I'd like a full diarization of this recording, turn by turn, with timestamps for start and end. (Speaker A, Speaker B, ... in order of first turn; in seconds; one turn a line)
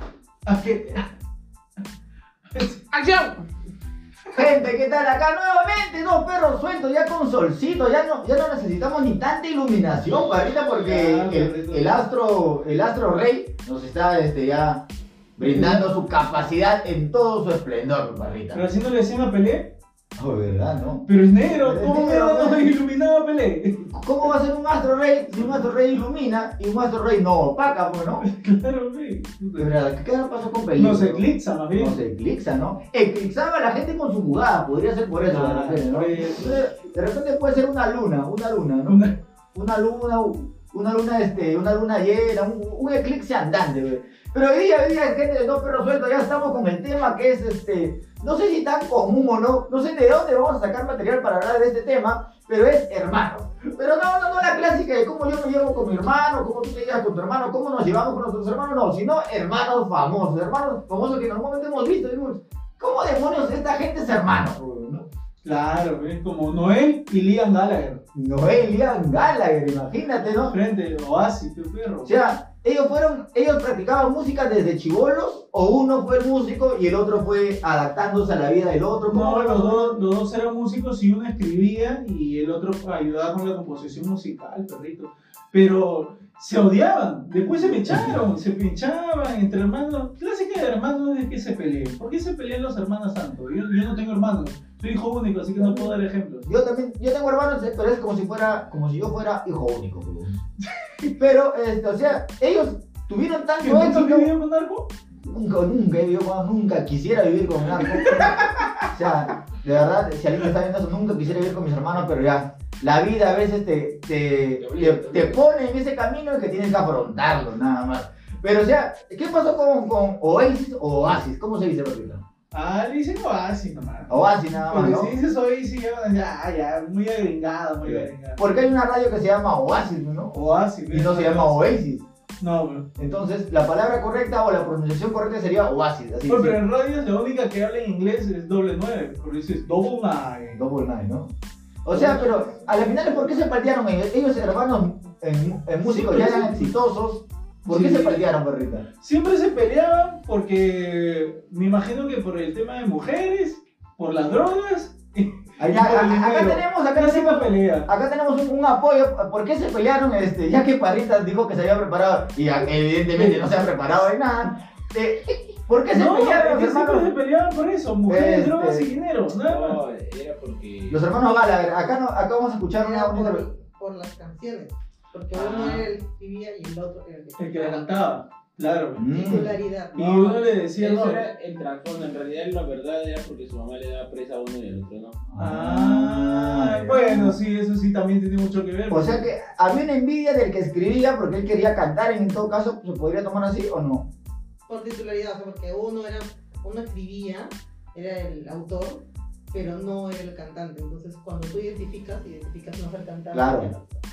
Speaker A: 0.5-1.1
Speaker A: 2.5-2.8
Speaker B: 2.9-3.4
Speaker C: 4.3-14.8
Speaker A: 10.8-12.0
Speaker C: 15.4-18.6
Speaker A: 15.5-15.8
Speaker A: 18.5-19.7
Speaker C: 20.1-22.7
Speaker A: 21.1-23.9
Speaker C: 23.9-28.2
Speaker A: 28.2-29.7
Speaker C: 29.6-65.0
Speaker A: 30.8-32.0
Speaker A: 35.2-36.6
Speaker A: 38.9-39.1
Speaker A: 65.4-68.0
Speaker C: 68.1-70.5
Speaker A: 70.2-72.1
Speaker C: 72.0-80.0
Speaker A: 79.1-96.5
Speaker C: 87.7-88.2
Speaker C: 95.6-100.4
Speaker A: 100.8-101.1
Speaker C: 101.2-104.3
Speaker A: 103.6-104.9
Speaker C: 105.2-122.2
Speaker A: 107.9-108.9
Speaker B: 114.6-115.4
Speaker A: 122.5-128.4
Speaker C: 124.1-125.1
Speaker C: 127.8-130.3
Speaker A: 130.3-131.6
Speaker C: 130.9-132.0
Speaker A: 132.4-132.8
Speaker C: 133.0-136.6
Speaker A: 136.3-140.6
Speaker C: 140.5-141.3
Speaker C: 141.8-148.9
Speaker A: 141.9-142.7
Speaker A: 145.8-146.7
Speaker A: 147.7-148.3
Speaker A: 149.0-157.9
Speaker C: 155.6-167.1
Speaker A: 163.1-163.5
Speaker A: 165.9-169.8
Speaker C: 168.1-168.9
Speaker B: 169.3-171.0
Speaker C: 170.9-173.4
Speaker D: 172.7-177.9
Speaker B: 175.3-175.9
Speaker A: 177.4-179.1
Speaker C: 178.9-179.5
Speaker D: 179.1-180.4
Speaker A: 179.9-181.3
Speaker B: 180.8-185.2
Speaker C: 185.3-187.4
Speaker A: 185.4-189.2
Speaker C: 188.9-194.1
Speaker D: 194.7-204.0
Speaker C: 203.3-203.7